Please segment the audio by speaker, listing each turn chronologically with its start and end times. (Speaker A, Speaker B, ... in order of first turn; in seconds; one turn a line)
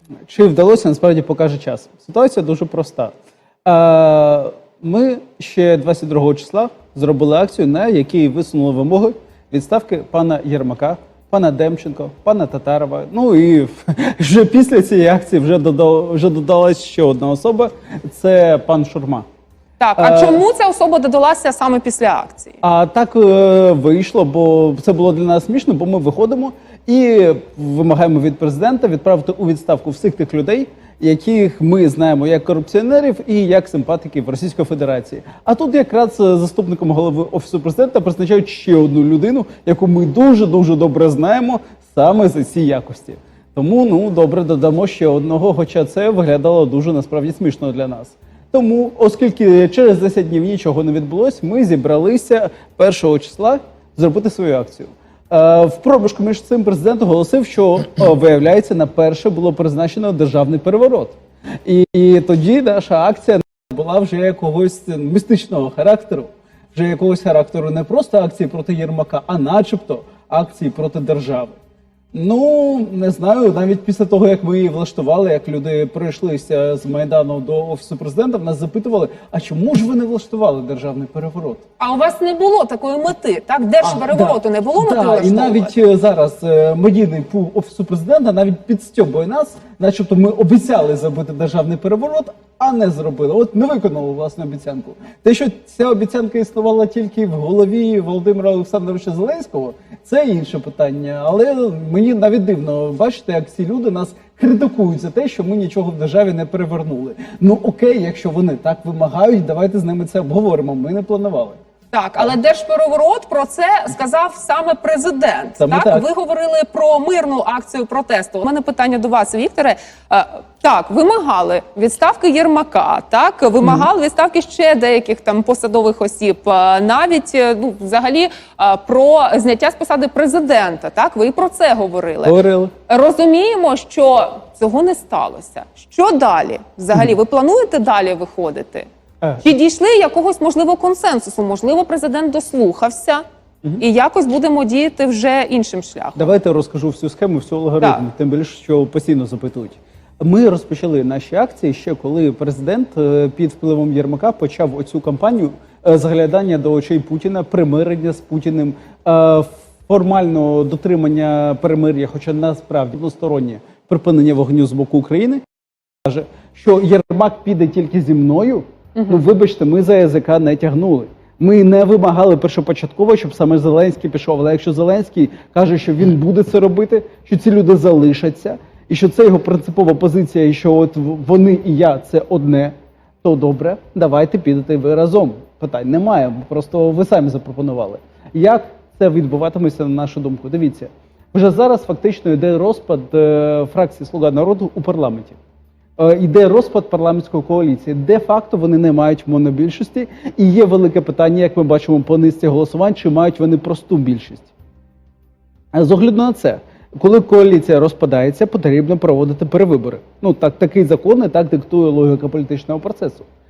Speaker A: 0.3-19.2
Speaker B: 19.8-22.6
Speaker A: 20.0-20.4
Speaker A: 22.6-71.6
Speaker A: 72.1-81.6
Speaker B: 81.8-85.7
Speaker A: 83.8-111.6
Speaker B: 111.9-138.9
Speaker A: 115.6-116.1
Speaker A: 123.6-123.9
Speaker A: 132.2-132.7
Speaker B: 139.4-143.2
Speaker B: 143.8-146.3
Speaker A: 146.2-165.4
Speaker A: 166.0-195.4
Speaker B: 169.0-169.2
Speaker A: 196.0-204.5
Speaker A: 205.7-213.2